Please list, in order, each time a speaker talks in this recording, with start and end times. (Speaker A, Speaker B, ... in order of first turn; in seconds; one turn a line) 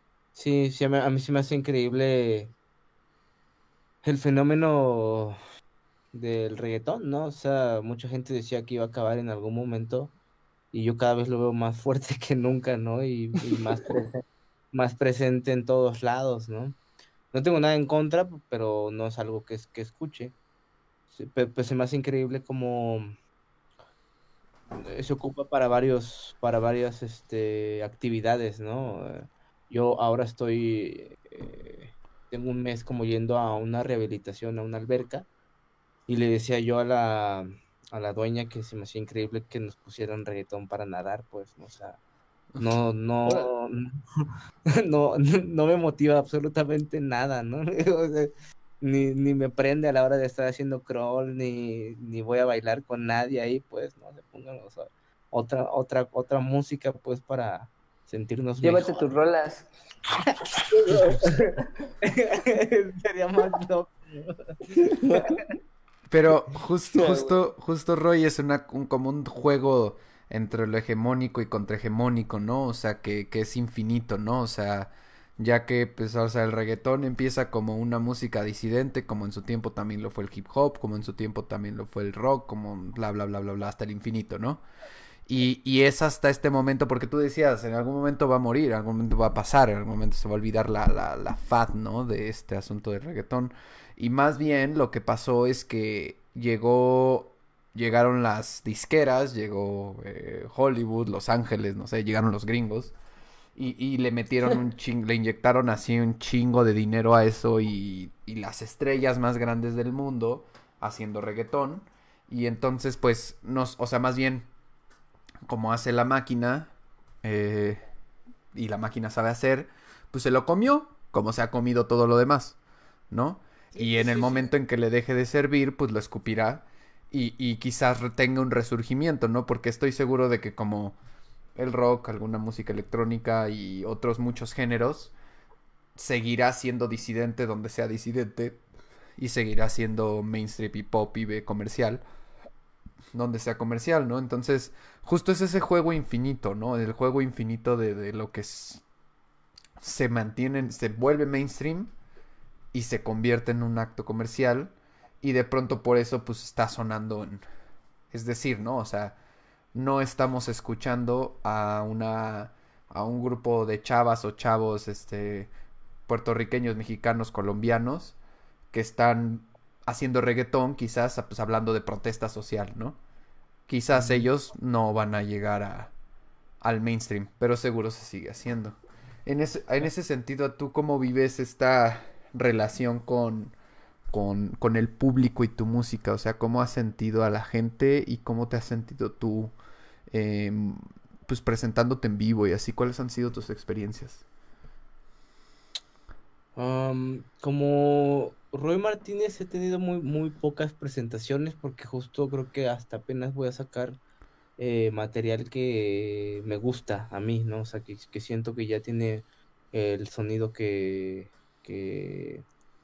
Speaker A: 0.3-2.5
Speaker A: 4.0-5.4
Speaker A: 6.1-10.1
Speaker A: 10.7-16.8
Speaker A: 17.3-20.3
Speaker A: 21.1-23.1
Speaker A: 24.7-35.3
Speaker A: 36.1-42.0
Speaker A: 42.6-59.1
Speaker B: 58.6-59.7
Speaker A: 60.2-65.3
Speaker B: 64.7-65.4
Speaker C: 66.1-84.6
Speaker B: 66.9-67.4
Speaker C: 85.3-102.9
Speaker C: 103.5-114.5
Speaker C: 115.5-117.8
Speaker C: 118.5-122.6
Speaker C: 123.1-131.0
Speaker A: 123.8-124.5
Speaker C: 131.6-135.1
Speaker C: 135.9-138.6
Speaker C: 139.2-142.0
Speaker C: 143.1-148.8
Speaker C: 149.8-151.9
Speaker C: 152.7-157.4
Speaker C: 158.1-159.2
Speaker C: 159.7-165.5
Speaker C: 166.1-168.2
Speaker C: 168.7-173.0
Speaker C: 173.7-175.9
Speaker A: 173.9-174.3
Speaker C: 176.6-183.5
Speaker C: 184.1-189.5
Speaker C: 190.1-194.2
Speaker A: 196.6-204.0
Speaker A: 204.6-212.4